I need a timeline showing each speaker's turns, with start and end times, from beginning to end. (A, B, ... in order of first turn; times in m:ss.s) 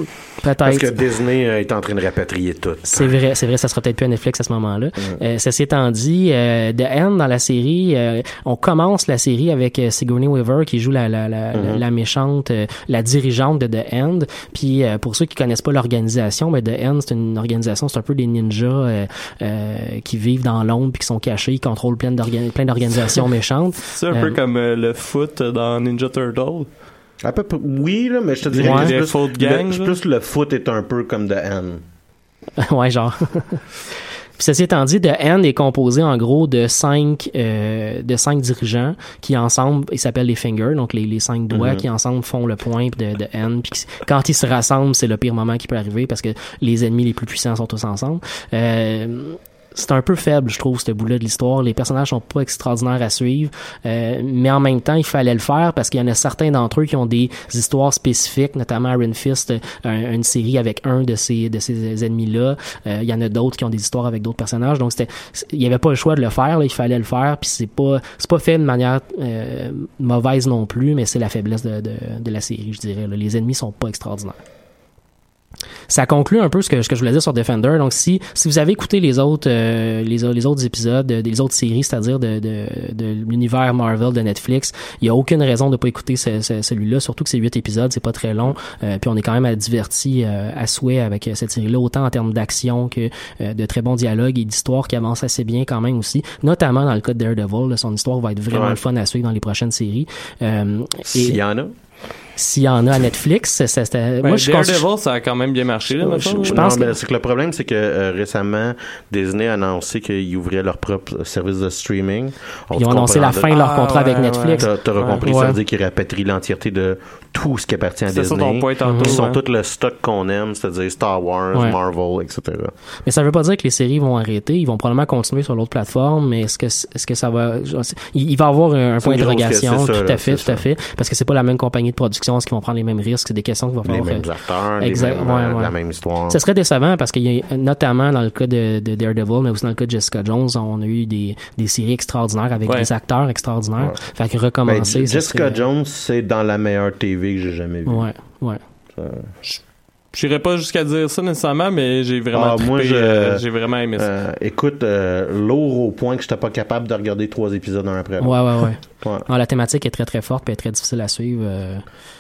0:00.4-0:00.9 A
0:00.6-0:03.1 B
0:02.8-0:24.4 A
0:11.5-0:11.8 B
0:23.9-0:26.7 C
0:27.2-0:31.8 B
0:28.5-0:30.0 C
0:28.6-0:28.9 A
0:32.6-0:33.6 A
0:34.4-1:14.4 A
0:41.5-0:41.8 B
1:15.9-1:41.4 A
1:38.5-1:38.8 B
1:41.1-1:41.7 B
1:42.4-1:44.8 A
1:44.2-1:46.6 C
1:46.0-1:53.5 B
1:46.4-1:46.9 A
1:52.8-1:54.7 A
1:53.5-1:55.3 C
1:54.6-2:02.7 B
1:55.3-1:55.6 A
1:58.1-1:59.4 C
1:58.8-1:59.2 A
2:03.1-2:14.3 A
2:09.0-2:10.6 B
2:13.8-2:16.4 B
2:14.8-2:15.7 A
2:16.3-2:25.6 A
2:24.6-2:28.1 B
2:27.9-2:28.6 A
2:29.0-2:29.3 B
2:30.1-2:34.1 C
2:32.3-2:33.4 B
2:34.0-2:39.3 B
2:38.2-2:41.8 A